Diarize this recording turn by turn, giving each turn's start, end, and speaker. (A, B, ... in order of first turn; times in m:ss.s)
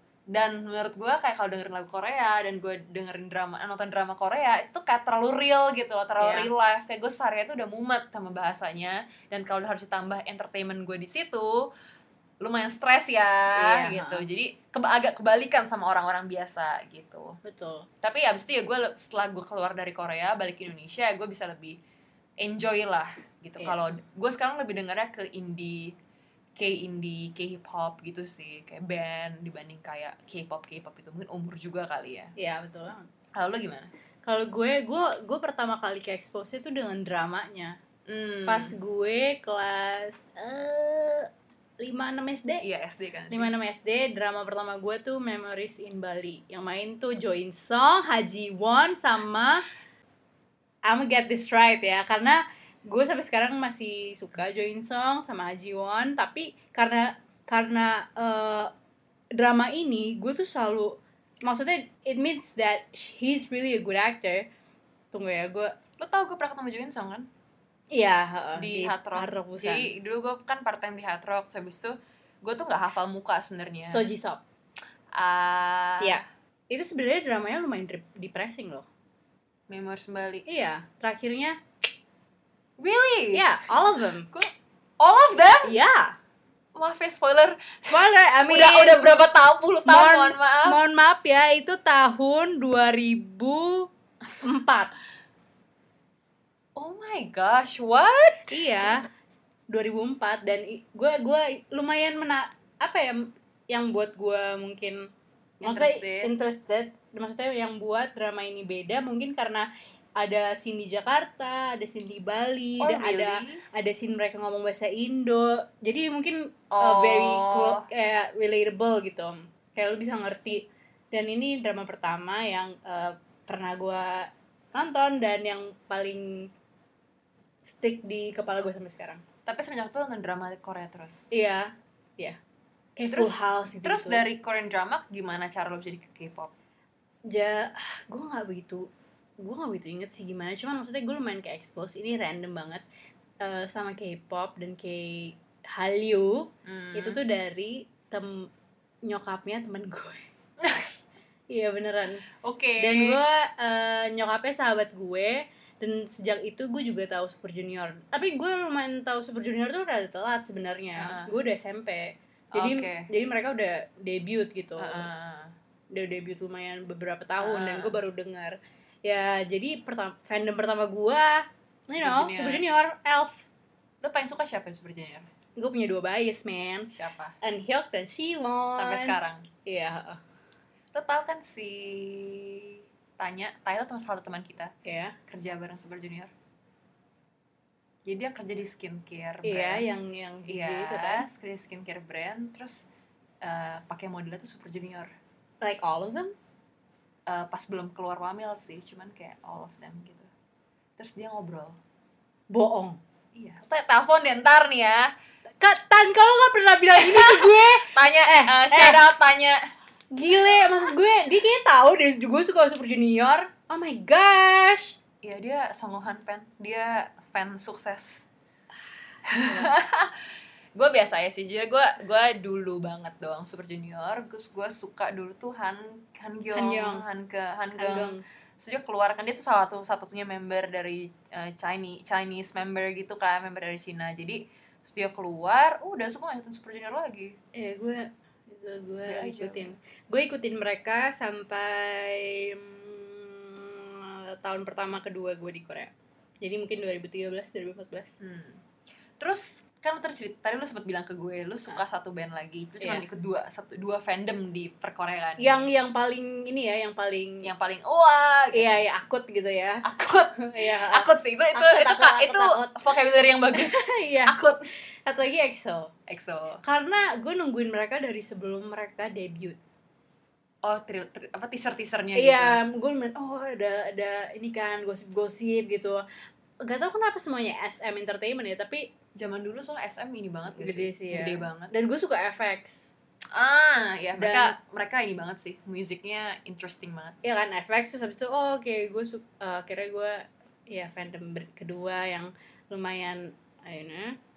0:00.3-0:11.7 A
0:06.2-0:06.5 B
0:12.4-0:17.4 A
0:13.6-0:14.3 B
0:17.4-0:17.9 B
0:18.0-0:21.8 A
0:22.4-0:26.0 A
0:26.6-0:32.3 A
0:32.4-0:33.1 B
0:33.4-0:33.9 A
0:34.2-0:37.8 B
0:38.1-0:38.8 A
0:38.5-0:41.3 B
0:41.8-0:42.6 B
0:42.6-0:43.5 A
0:43.3-0:49.6 B
0:50.9-0:58.7 B
0:59.4-1:04.5 B
1:05.1-1:05.7 B
1:06.0-1:07.3 A
1:07.9-1:09.9 B
1:08.6-1:14.1 A
1:13.9-1:14.4 B
1:15.1-1:16.2 A
1:16.0-1:18.9 B
1:19.7-1:20.4 A
1:20.5-1:21.6 B
1:22.8-1:25.8 A
1:23.3-1:24.3 B
1:25.6-1:26.2 B
1:26.8-1:30.8 A
1:27.9-1:29.0 B
1:29.8-1:33.9 B
1:34.4-1:34.9 B
1:36.8-1:38.6 A
1:38.5-1:39.1 B
1:39.7-1:45.0 B
1:45.6-1:49.7 B
1:45.6-1:46.3 A
1:50.2-2:06.5 B
1:52.8-1:53.6 A
1:56.7-1:57.9 A
2:07.7-2:09.2 B
2:09.5-2:11.3 A
2:11.3-2:12.4 B
2:13.0-2:14.2 B
2:13.1-2:16.5 A
2:17.3-2:18.9 B
2:19.4-2:22.8 B
2:23.4-2:28.5 B
2:26.7-2:27.2 A
2:29.0-2:30.2 B
2:30.6-2:30.9 A
2:31.5-2:32.2 B
2:32.4-2:33.2 A
2:32.8-2:45.1 B
2:41.0-2:41.3 A
2:42.6-2:43.1 A
2:44.8-2:45.5 A
2:45.9-2:53.5 B
2:47.4-2:48.0 A
2:51.9-2:52.6 A
2:54.0-2:55.3 A
2:55.6-2:56.9 B
2:56.9-2:57.4 A
2:57.4-3:00.2 B
2:58.7-2:59.5 A
3:00.9-3:04.7 A
3:04.8-3:05.2 B
3:05.3-3:06.3 A
3:08.0-3:09.9 A
3:09.4-3:11.3 B
3:10.5-3:12.9 A
3:13.4-3:15.1 A
3:15.6-3:16.4 B
3:17.3-3:20.3 A
3:21.0-3:21.8 A
3:22.5-3:23.0 B
3:23.4-3:25.1 A
3:25.6-3:29.0 B
3:27.0-3:29.7 A
3:30.1-3:35.0 B
3:35.2-3:38.3 A
3:39.2-3:57.4 A
3:39.4-3:39.7 B
3:46.5-3:47.0 B
3:47.8-3:48.2 B
3:57.6-4:08.1 B
3:59.0-3:59.7 A
4:08.2-4:08.6 A
4:09.2-4:15.6 A
4:12.8-4:13.0 B
4:15.4-4:17.5 B
4:17.4-4:18.7 A
4:18.5-4:19.8 B
4:19.8-4:24.6 A
4:20.4-4:23.0 B
4:23.5-4:24.4 B
4:25.0-4:25.9 B
4:26.1-4:26.6 A
4:26.6-4:29.6 B
4:30.6-4:32.6 A
4:32.2-4:36.0 B
4:36.6-4:38.9 B
4:39.2-4:41.7 A
4:40.6-4:42.9 B
4:43.3-4:47.2 A
4:44.2-4:44.6 B
4:47.2-4:54.2 B